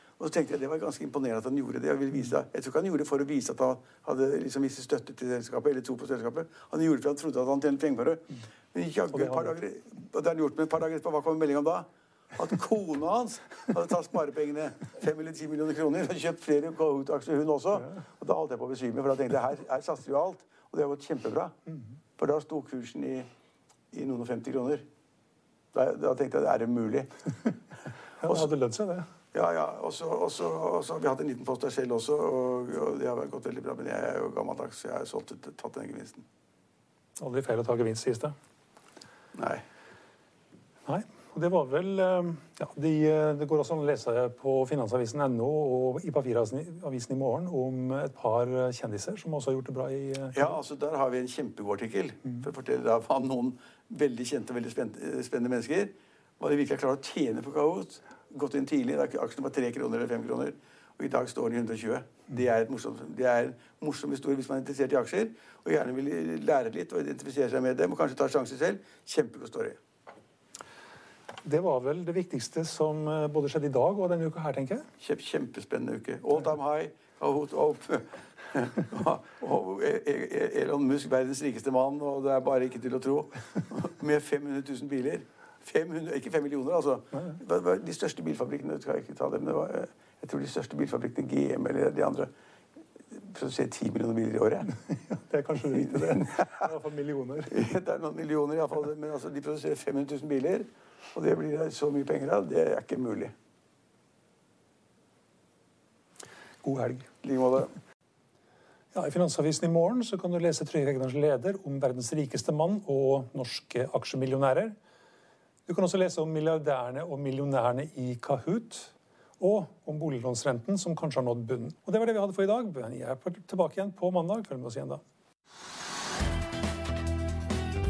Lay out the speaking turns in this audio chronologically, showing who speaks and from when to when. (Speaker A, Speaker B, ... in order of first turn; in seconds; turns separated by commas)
Speaker A: 0.2-21.6, Speaker B: 9.1-9.5, Speaker A: 22.2-23.3, Speaker A: 23.9-24.8, Speaker A: 25.7-27.3, Speaker B: 28.2-29.1, Speaker A: 29.3-36.2, Speaker B: 37.2-38.3, Speaker A: 39.3-39.6, Speaker B: 40.9-50.6, Speaker A: 50.3-69.8, Speaker B: 71.4-74.8, Speaker A: 75.0-92.3, Speaker A: 93.1-94.7, Speaker B: 94.9-97.6, Speaker A: 95.7-96.6, Speaker A: 97.5-103.3, Speaker B: 106.6-107.1, Speaker A: 107.2-107.7, Speaker B: 108.9-114.7, Speaker B: 115.7-125.0